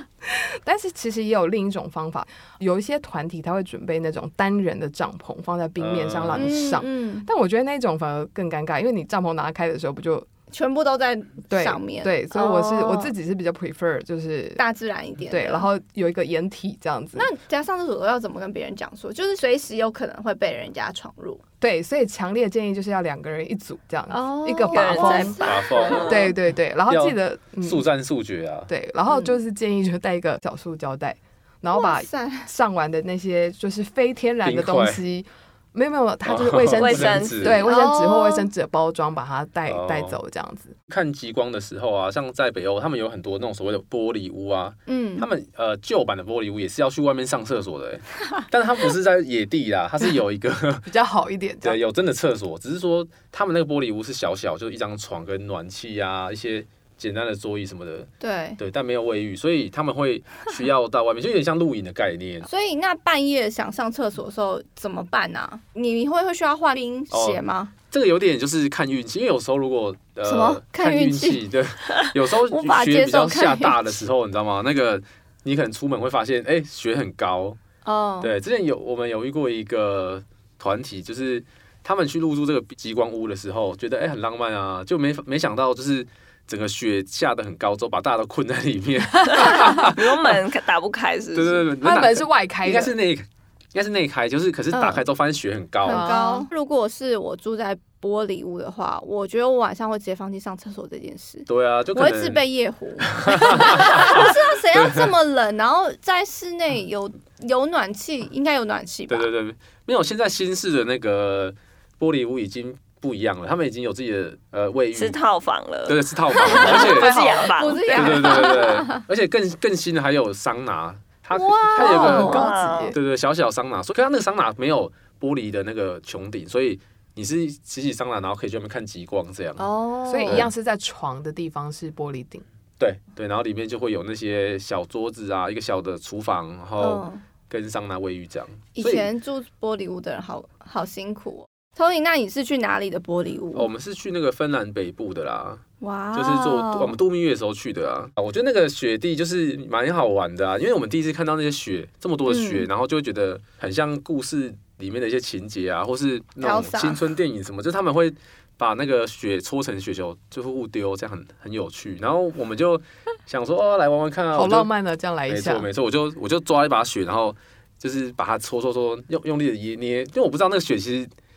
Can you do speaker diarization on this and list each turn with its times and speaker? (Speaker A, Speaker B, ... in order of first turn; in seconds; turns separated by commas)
Speaker A: 0.2-10.3, Speaker B: 5.8-6.5, Speaker C: 6.3-7.3, Speaker C: 10.5-13.1, Speaker A: 11.5-14.6, Speaker C: 14.6-15.7, Speaker A: 15.3-17.3, Speaker C: 17.1-21.4, Speaker A: 21.6-25.4, Speaker C: 24.1-26.3, Speaker D: 24.7-26.3, Speaker B: 25.4-26.3, Speaker A: 26.0-27.8, Speaker B: 26.9-28.7, Speaker A: 28.7-40.7, Speaker C: 31.7-32.5, Speaker B: 34.4-35.0, Speaker B: 36.2-37.6, Speaker D: 36.7-37.6, Speaker C: 37.6-38.5, Speaker B: 39.7-40.1, Speaker B: 40.9-50.9, Speaker C: 44.9-45.3, Speaker A: 50.8-51.8, Speaker B: 51.6-62.5, Speaker C: 58.2-58.6, Speaker C: 62.4-67.7, Speaker B: 67.1-77.6, Speaker C: 70.2-71.4, Speaker C: 72.4-73.8, Speaker C: 77.8-78.3, Speaker B: 78.2-90.4, Speaker D: 89.2-91.7, Speaker B: 91.3-96.1, Speaker A: 91.8-92.9, Speaker C: 94.7-95.0, Speaker C: 95.8-109.3, Speaker A: 95.8-96.5, Speaker B: 101.5-102.4, Speaker B: 103.0-105.1, Speaker B: 109.1-115.2, Speaker D: 114.9-118.0, Speaker B: 115.9-129.7, Speaker C: 116.5-119.0, Speaker A: 116.6-118.2, Speaker C: 121.3-122.5, Speaker A: 121.7-123.0, Speaker D: 122.0-122.9, Speaker C: 129.6-130.5, Speaker A: 130.1-132.4, Speaker B: 132.8-139.1, Speaker C: 136.8-137.2, Speaker C: 138.8-143.7, Speaker B: 143.5-145.6, Speaker C: 145.8-147.0, Speaker B: 146.1-164.7, Speaker C: 152.2-152.7, Speaker C: 156.4-157.1, Speaker A: 164.3-165.7, Speaker B: 165.3-171.1